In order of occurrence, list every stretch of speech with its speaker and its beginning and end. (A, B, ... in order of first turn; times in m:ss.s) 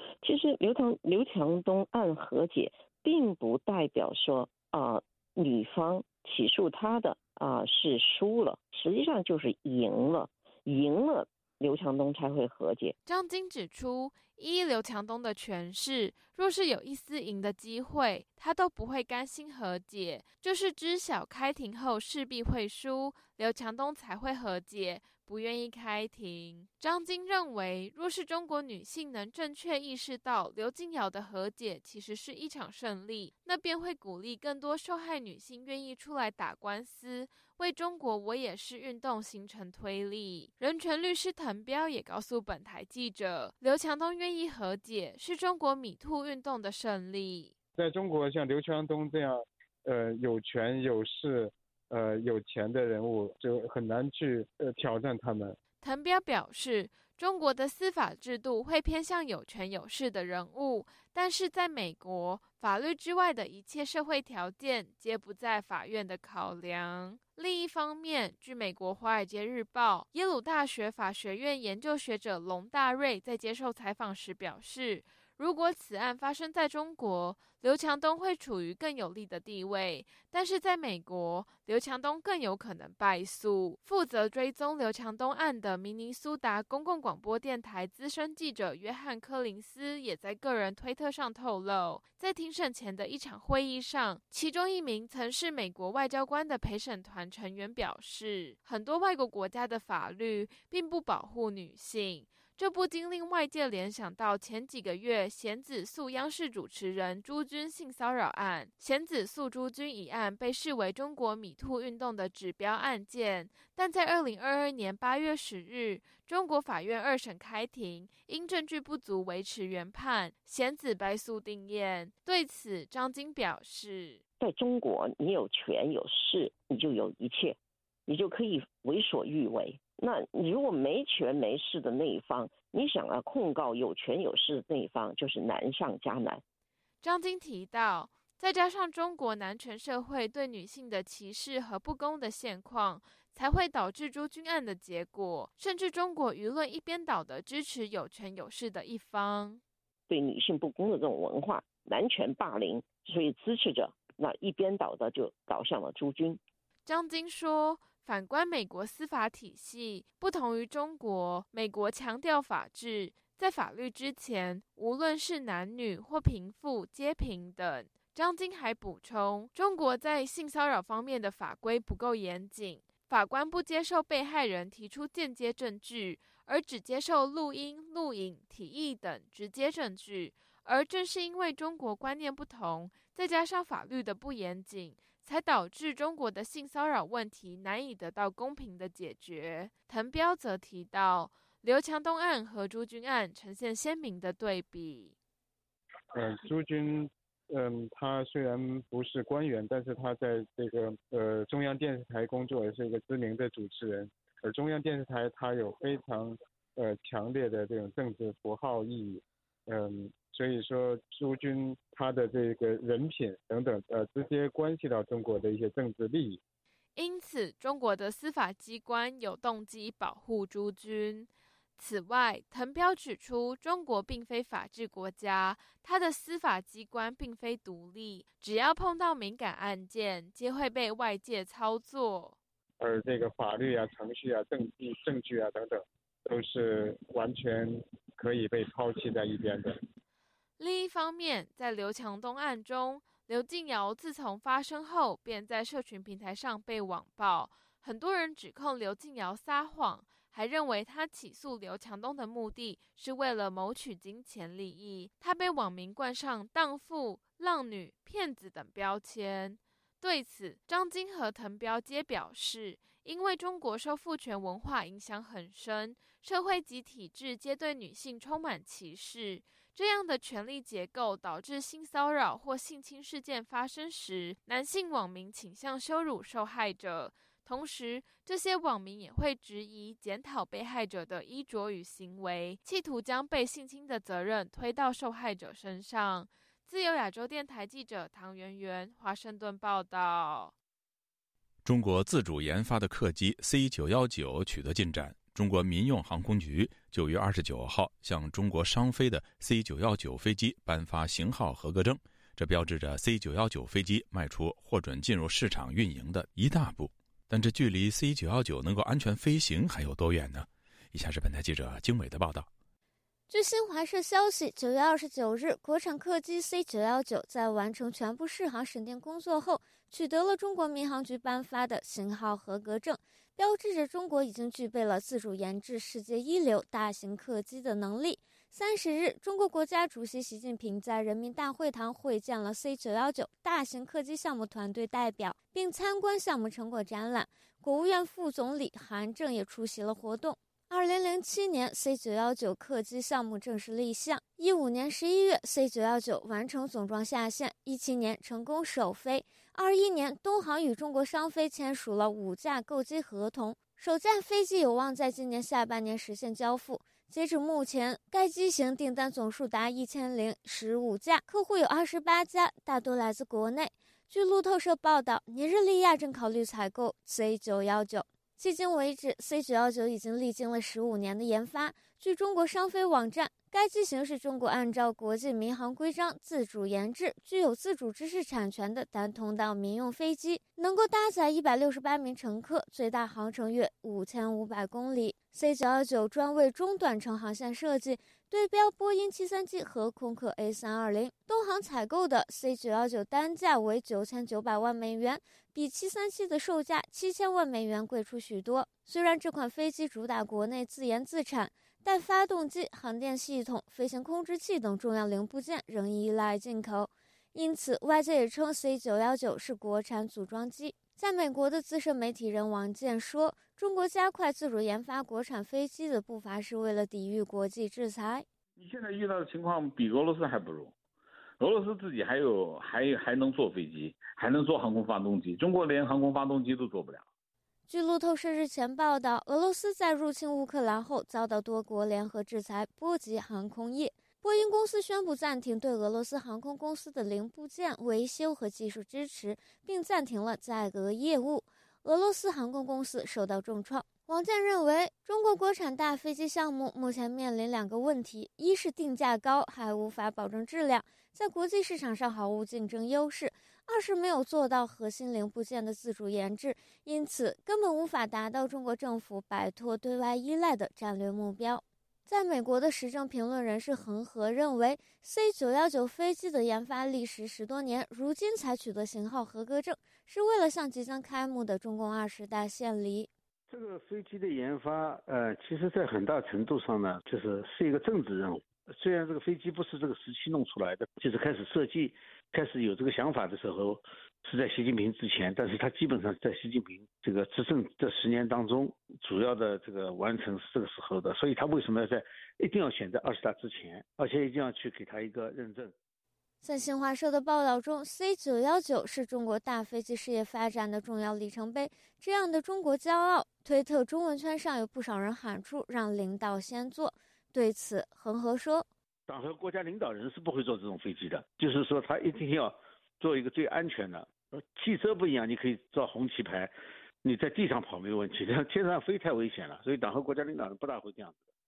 0:00.2-0:13.0 A
0:13.0-0:47.5 B
0:47.8-0:55.6 C
0:55.8-2:04.2 B
2:04.4-2:16.4 A
2:17.0-2:29.6 B
2:30.1-2:36.4 A
2:36.9-3:15.1 B
3:16.2-3:36.4 C
3:36.9-3:52.4 B
3:52.8-3:59.8 C
4:00.6-4:50.5 B
4:51.6-5:12.5 D
5:13.3-6:58.2 E
6:58.6-7:00.7 F
7:01.4-7:07.1 F
7:07.7-7:53.1 E
7:53.5-8:15.7 G
8:16.4-8:28.7 E
8:29.1-8:36.5 G
8:37.0-8:41.2 G